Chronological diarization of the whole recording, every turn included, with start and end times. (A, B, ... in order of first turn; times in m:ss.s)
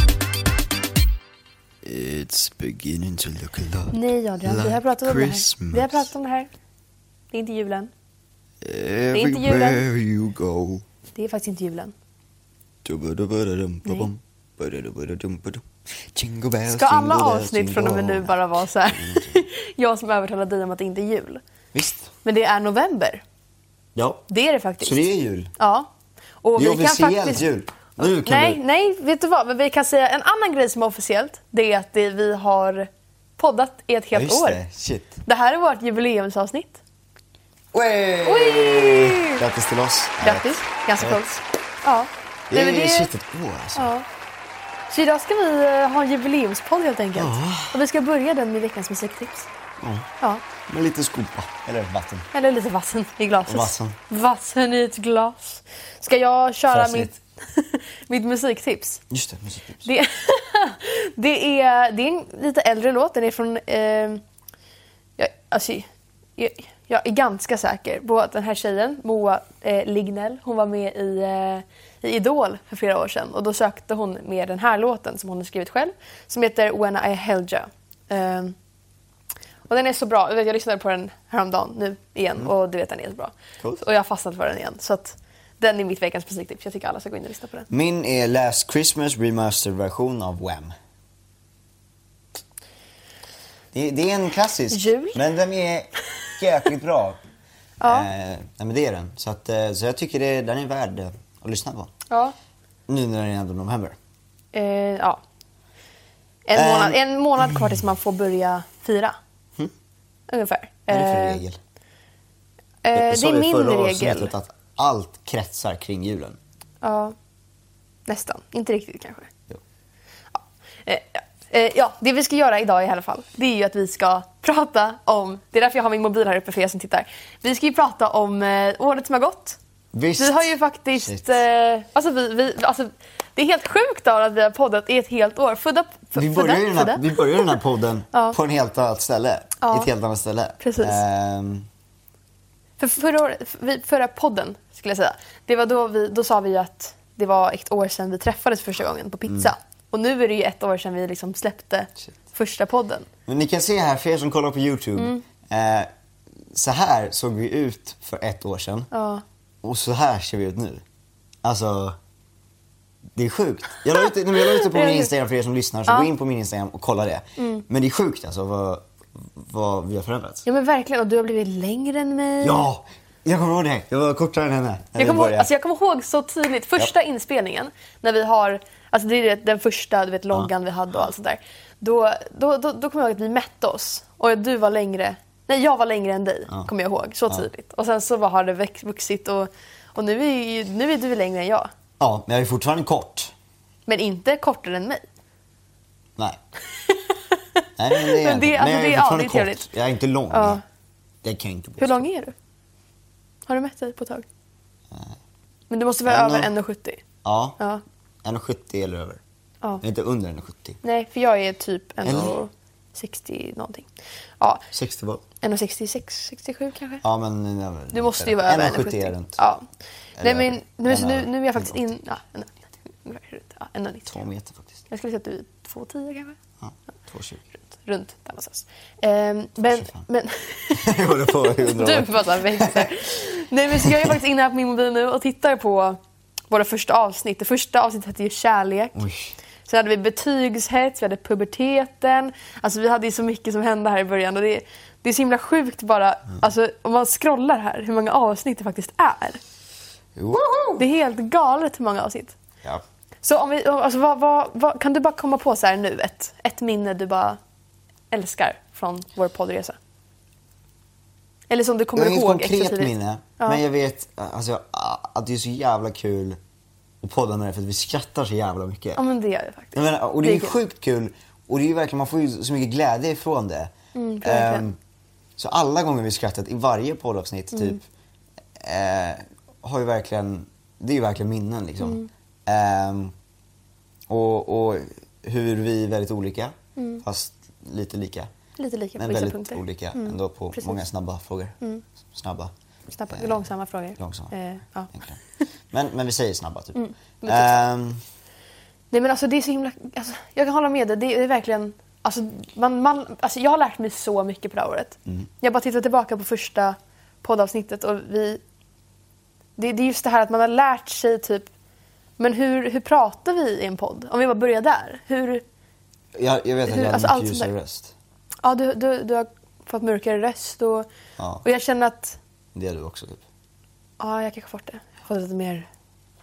0:01.8-0:06.1 A
0:03.9-0:06.5 B
0:07.3-0:07.9 B
0:08.6-0:10.8 A
0:09.1-0:09.8 B
0:11.2-0:11.9 B
0:12.8-0:19.5 A
0:16.7-0:21.4 B
0:21.7-0:22.1 A
0:22.2-0:23.2 B
0:24.0-0:24.3 A
0:24.3-0:25.0 B
0:24.8-0:25.5 A
0:25.6-0:25.9 B
0:26.4-0:27.4 B
0:26.6-0:28.6 A
0:28.0-0:34.6 B
0:34.1-0:35.2 A
0:35.2-0:36.8 B
0:37.7-0:41.2 A
0:38.2-0:39.4 B
0:40.2-0:43.1 B
0:42.5-0:43.9 A
0:43.8-0:44.0 B
0:44.9-0:49.5 B
0:47.2-0:47.8 A
0:49.8-0:50.1 A
0:50.7-0:52.3 A
0:52.3-0:59.0 B
0:53.5-0:54.0 A
0:56.7-0:57.1 A
0:59.1-0:59.9 A
0:59.8-1:04.2 B
1:05.2-1:18.6 B
1:19.7-1:27.7 B
1:27.7-1:30.7 A
1:33.7-1:37.2 A
1:34.7-1:35.2 B
1:37.8-1:38.1 B
1:37.8-1:41.9 A
1:42.1-1:42.4 B
1:42.9-1:44.0 A
1:44.5-1:45.2 B
1:46.5-1:49.2 B
1:46.5-1:47.7 A
1:50.3-1:51.4 B
1:50.9-1:51.6 A
1:52.8-1:54.3 B
1:52.9-1:56.4 A
1:56.8-1:57.2 B
1:58.1-1:59.3 B
2:00.4-2:09.6 B
2:09.9-2:11.4 A
2:10.2-2:17.6 B
2:16.2-2:21.7 A
2:19.6-2:19.9 B
2:20.6-2:21.0 B
2:22.8-2:33.1 B
2:33.3-2:35.9 A
2:35.0-2:35.2 B
2:36.5-2:38.9 A
2:38.9-2:39.2 B
2:39.6-2:40.8 A
2:41.4-2:42.0 A
2:43.2-2:50.4 A
2:44.4-2:45.1 B
2:47.4-2:47.6 B
2:50.4-2:52.7 B
2:52.4-2:55.5 A
2:55.0-3:11.7 B
3:12.0-3:13.3 A
3:13.9-3:15.0 B
3:16.9-3:19.7 B
3:17.8-3:20.6 A
3:20.3-3:20.6 B
3:21.2-3:22.1 A
3:21.8-3:22.4 B
3:23.5-3:24.2 B
3:24.9-3:25.2 A
3:25.7-3:27.0 B
3:26.1-3:26.5 A
3:27.2-3:27.6 A
3:28.2-3:29.2 A
3:29.8-3:30.8 A
3:30.8-3:33.9 B
3:32.0-3:32.4 A
3:34.7-3:35.2 A
3:35.4-3:37.0 B
3:37.0-3:39.4 A
3:37.9-3:39.6 B
3:40.2-3:41.9 A
3:40.2-3:44.2 B
3:44.1-3:44.8 A
3:44.9-3:46.4 B
3:46.6-3:47.4 A
3:47.7-3:56.0 B
3:49.7-3:50.0 A
3:50.7-3:53.0 A
3:53.7-3:54.2 A
3:56.5-3:59.0 B
3:59.0-3:59.3 A
3:59.7-4:09.4 B
4:10.2-4:10.8 A
4:10.8-4:12.4 B
4:13.2-4:17.4 B
4:18.1-4:19.8 B
4:21.5-4:23.6 B
4:22.0-4:26.4 A
4:27.0-4:29.0 A
4:29.0-4:30.6 B
4:29.8-4:34.8 A
4:34.0-4:34.7 B
4:35.4-4:37.8 A
4:37.5-4:37.8 B
4:38.6-4:43.1 A
4:41.8-4:42.1 B
4:44.1-4:48.3 A
4:46.8-4:47.0 B
4:48.6-4:50.8 B
4:49.0-4:51.6 A
4:52.1-4:52.5 A
4:52.9-4:55.4 B
4:53.1-4:53.4 A
4:54.0-4:54.3 A
4:54.9-4:55.2 A
4:55.7-4:58.0 A
4:56.8-4:57.6 B
4:58.9-5:08.4 B
5:09.6-5:11.5 B
5:12.2-5:15.4 B
5:16.2-5:17.9 A
5:16.7-5:17.5 B
5:18.4-5:20.9 B
5:21.2-5:21.4 A
5:21.4-5:22.2 B
5:22.6-5:23.2 A
5:24.0-5:25.7 B